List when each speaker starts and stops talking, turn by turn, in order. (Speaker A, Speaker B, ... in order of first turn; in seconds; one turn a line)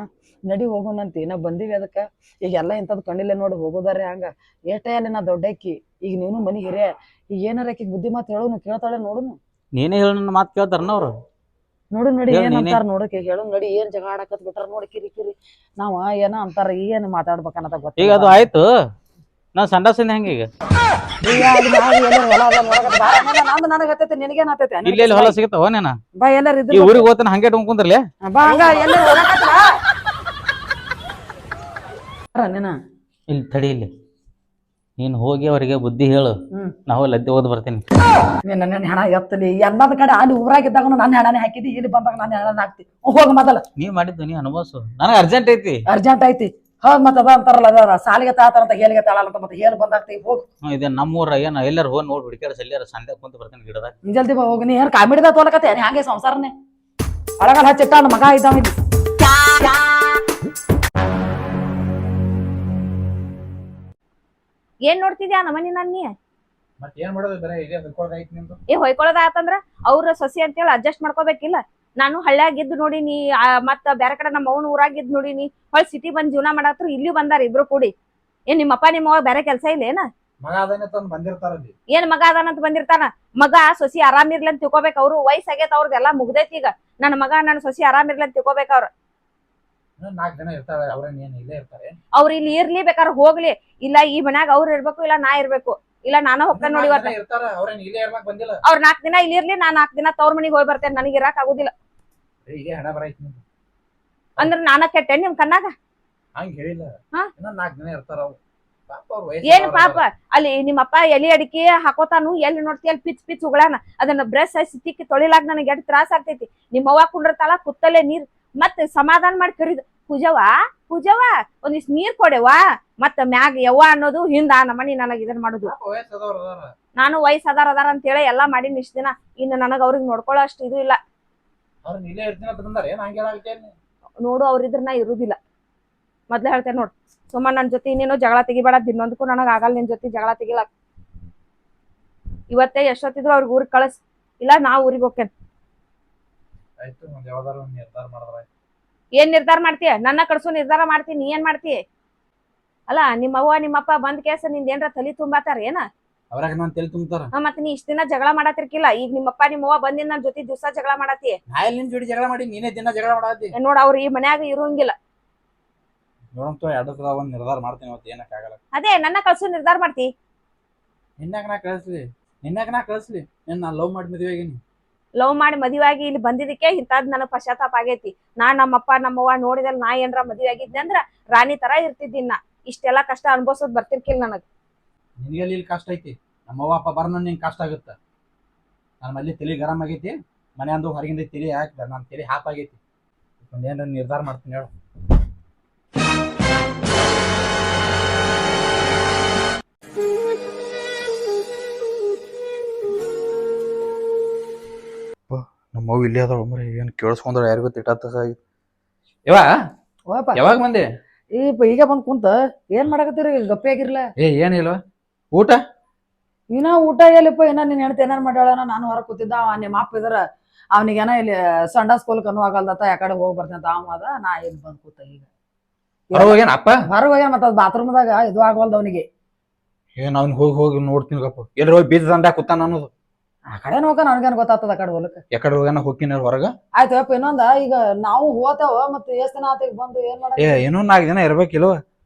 Speaker A: 0.5-9.4
Speaker B: 9.7-11.1
Speaker A: 11.9-18.5
Speaker B: 12.3-12.8
Speaker B: 18.0-18.7
Speaker B: 19.5-20.5
Speaker A: 21.2-25.4
Speaker B: 24.8-26.0
Speaker A: 26.2-27.1
Speaker B: 26.7-28.0
Speaker A: 28.2-29.7
Speaker A: 32.3-32.8
Speaker B: 33.3-33.9
Speaker B: 35.0-36.4
Speaker B: 36.9-37.8
Speaker A: 38.4-43.6
Speaker B: 43.8-45.8
Speaker A: 45.9-50.4
Speaker B: 50.6-53.9
Speaker A: 54.1-56.5
Speaker A: 57.4-58.8
Speaker C: 64.8-66.1
Speaker D: 66.8-68.6
Speaker C: 68.7-77.9
Speaker C: 78.5-80.1
Speaker D: 80.4-81.7
Speaker C: 81.9-88.9
Speaker D: 90.0-92.0
Speaker C: 92.1-97.1
Speaker D: 96.5-98.6
Speaker C: 98.7-101.7
Speaker D: 102.4-103.4
Speaker C: 104.4-105.7
Speaker D: 106.3-108.4
Speaker D: 108.9-110.0
Speaker C: 109.4-125.7
Speaker D: 125.7-126.7
Speaker C: 127.0-131.0
Speaker D: 131.8-133.7
Speaker C: 134.2-135.4
Speaker C: 136.3-140.7
Speaker C: 142.5-145.3
Speaker D: 146.8-148.4
Speaker C: 149.2-151.8
Speaker C: 152.9-155.8
Speaker D: 156.3-157.3
Speaker C: 157.3-161.4
Speaker D: 161.5-163.5
Speaker C: 163.6-164.9
Speaker D: 166.3-168.6
Speaker C: 168.7-170.1
Speaker D: 171.2-174.6
Speaker C: 175.2-184.4
Speaker D: 185.2-188.0
Speaker D: 189.0-192.8
Speaker D: 193.4-194.7
Speaker D: 205.3-208.4
Speaker A: 210.1-210.4
Speaker D: 210.3-210.9
Speaker A: 211.3-214.0
Speaker D: 214.2-214.8
Speaker D: 215.3-215.6
Speaker A: 216.5-220.2
Speaker A: 220.7-225.2
Speaker A: 226.1-226.4
Speaker D: 226.1-226.8
Speaker A: 226.9-229.0
Speaker D: 230.0-232.9
Speaker A: 233.5-235.2
Speaker D: 235.3-236.5
Speaker A: 236.8-240.6
Speaker D: 240.4-241.8